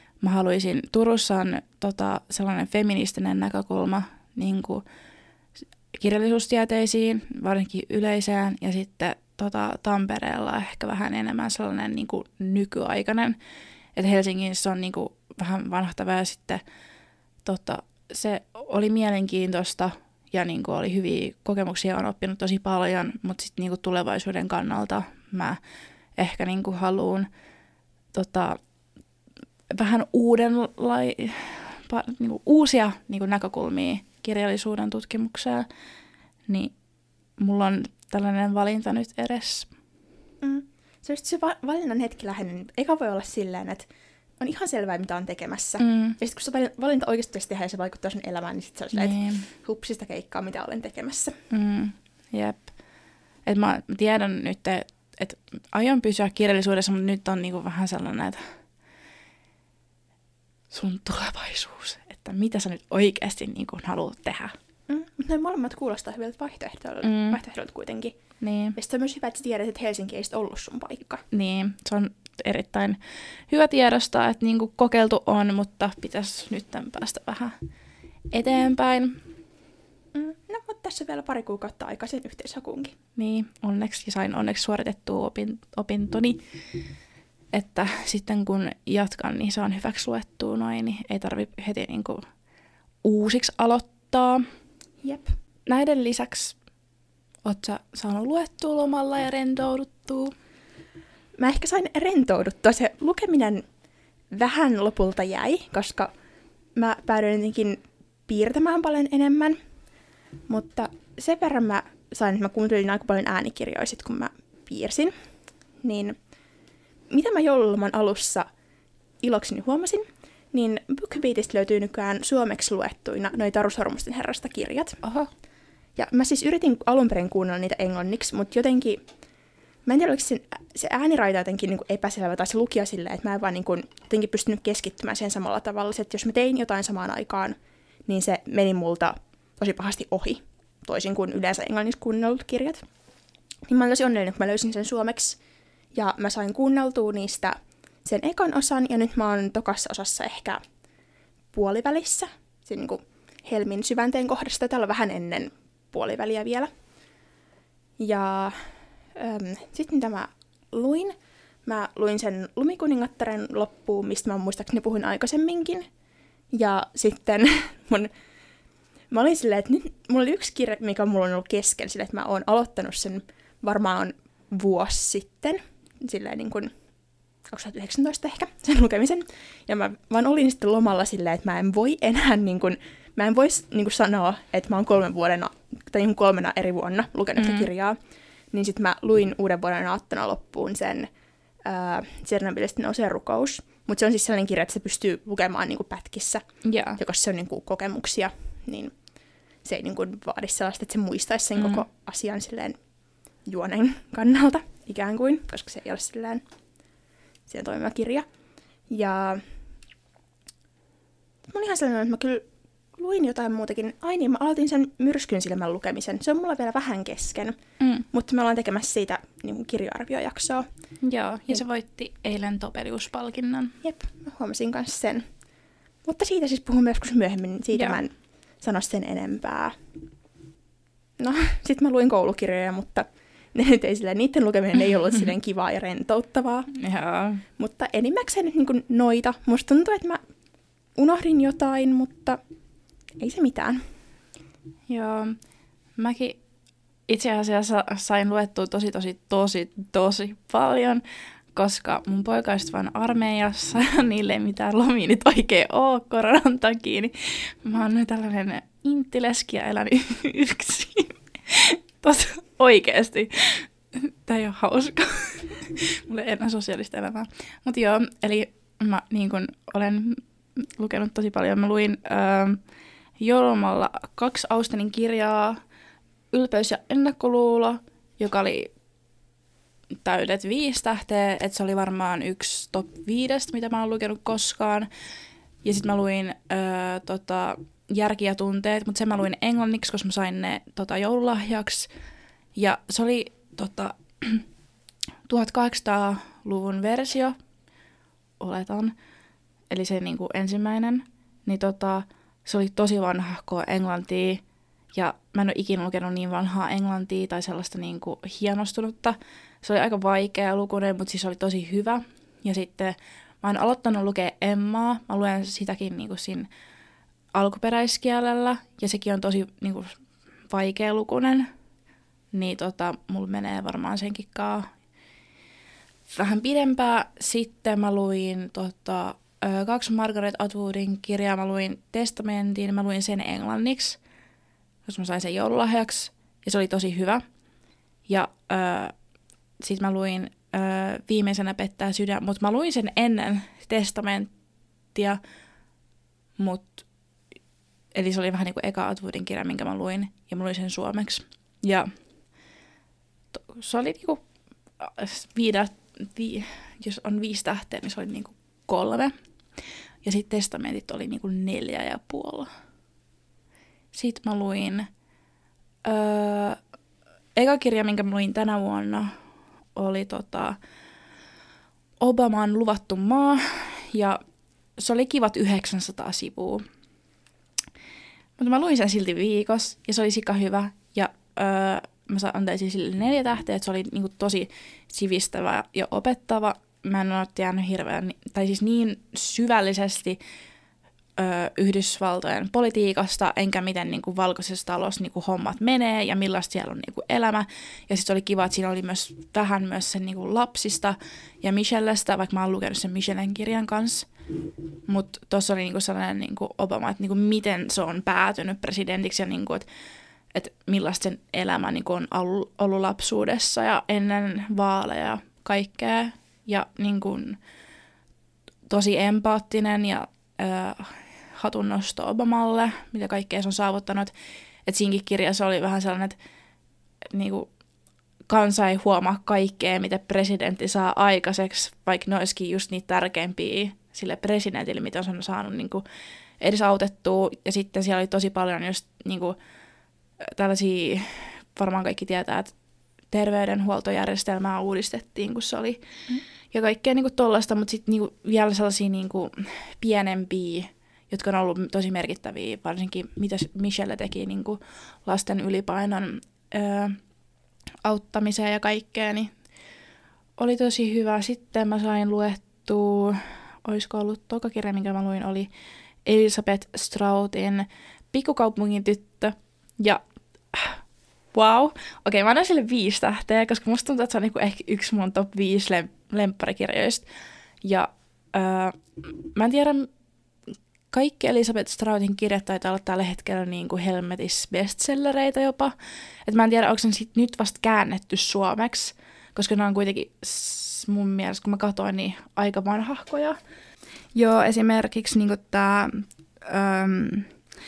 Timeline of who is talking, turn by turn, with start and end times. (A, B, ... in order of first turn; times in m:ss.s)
0:00.2-0:04.8 A
0:05.9-0:13.4 A
0:14.0-0:16.6 A
0:17.4-0:25.6 A
0:26.2-0:27.3 A
0:28.1-0:28.6 A
0:29.7-0:35.7 A
0:36.5-0:36.7 A
0:37.4-0:39.7 A
0:40.4-0:43.9 B
0:44.4-0:51.4 B
0:45.8-0:46.2 A
0:48.9-0:49.5 A
0:51.5-0:52.7 A
0:53.5-0:58.4 A
1:00.7-1:04.6 A
1:04.9-1:08.2 B
1:07.0-1:07.4 A
1:08.4-1:08.8 A
1:08.8-1:11.2 B
1:11.3-1:17.6 A
1:18.3-1:19.2 A
1:20.1-1:23.0 B
1:23.2-1:26.4 A
1:27.5-1:32.2 A
1:33.0-1:34.4 A
1:35.0-1:35.3 B
1:35.7-1:36.6 A
1:37.4-1:40.3 A
1:41.4-1:43.6 B
1:44.3-1:46.1 B
1:46.8-1:49.6 B
1:50.5-1:55.1 B
1:55.8-1:56.2 B
1:57.1-1:58.5 B
1:59.2-2:05.0 B
2:05.0-2:05.3 A
2:06.0-2:09.0 B
2:09.9-2:22.8 B
2:23.7-2:25.4 B
2:25.9-2:30.6 B
2:31.5-2:36.7 B
2:38.0-2:41.1 B
2:41.7-2:45.9 B
2:46.5-2:48.1 B
2:49.1-2:56.7 B
2:57.5-3:08.0 B
3:07.4-3:07.7 A
3:08.5-3:11.1 B
3:11.6-3:16.4 B
3:16.6-3:17.0 A
3:17.0-3:18.9 B
3:19.6-3:22.8 B
3:21.6-3:21.8 A
3:23.4-3:26.4 B
3:27.5-3:28.3 B
3:28.9-3:29.4 B
3:31.5-3:37.6 B
3:37.8-3:38.1 A
3:38.1-3:40.7 B
3:41.0-3:43.8 A
3:43.8-3:45.3 B
3:46.0-3:49.8 B
3:47.7-3:48.0 A
3:51.2-3:56.7 B
3:56.7-3:57.4 A
3:57.6-4:00.2 B
4:01.0-4:02.4 B
4:03.2-4:03.8 B
4:04.9-4:05.4 A
4:06.0-4:06.4 A
4:07.1-4:11.0 A
4:11.5-4:32.6 A
4:33.2-4:35.6 A
4:36.3-4:38.7 A
4:40.0-4:44.9 A
4:45.6-4:51.9 A
4:52.6-4:54.5 A
4:55.3-4:57.4 A
4:58.4-4:59.0 A
4:59.7-5:04.4 A
5:04.9-5:16.5 A
5:17.3-5:20.0 A
5:20.5-5:21.5 A
5:22.3-5:24.7 A
5:26.1-5:34.0 A
5:34.9-5:37.2 A
5:38.1-5:38.9 A
5:39.6-5:44.3 A
5:44.9-5:45.2 A
5:46.4-5:46.8 A
5:47.9-5:51.9 A
5:53.3-5:54.2 A
5:54.8-5:59.1 A
6:00.0-6:02.5 A
6:03.9-6:04.9 A
6:05.8-6:06.6 A
6:07.4-6:09.1 A
6:09.8-6:10.6 A
6:12.0-6:14.2 A
6:14.8-6:16.6 A
6:18.4-6:30.2 A
6:31.2-6:44.1 A
6:44.9-6:49.7 A
6:50.3-6:57.4 A
6:58.7-7:04.1 A
7:04.7-7:06.2 A
7:07.1-7:07.5 A
7:08.3-7:15.8 A
7:16.4-7:19.4 A
7:20.2-7:22.5 A
7:23.1-7:25.8 A
7:26.5-7:37.0 A
7:37.8-7:39.3 A
7:40.4-7:45.5 A
7:46.0-7:50.0 A
7:50.5-7:50.8 A
7:51.3-7:57.1 A
7:57.6-7:59.9 A
8:00.9-8:05.7 A
8:06.3-8:13.4 A
8:14.1-8:17.3 A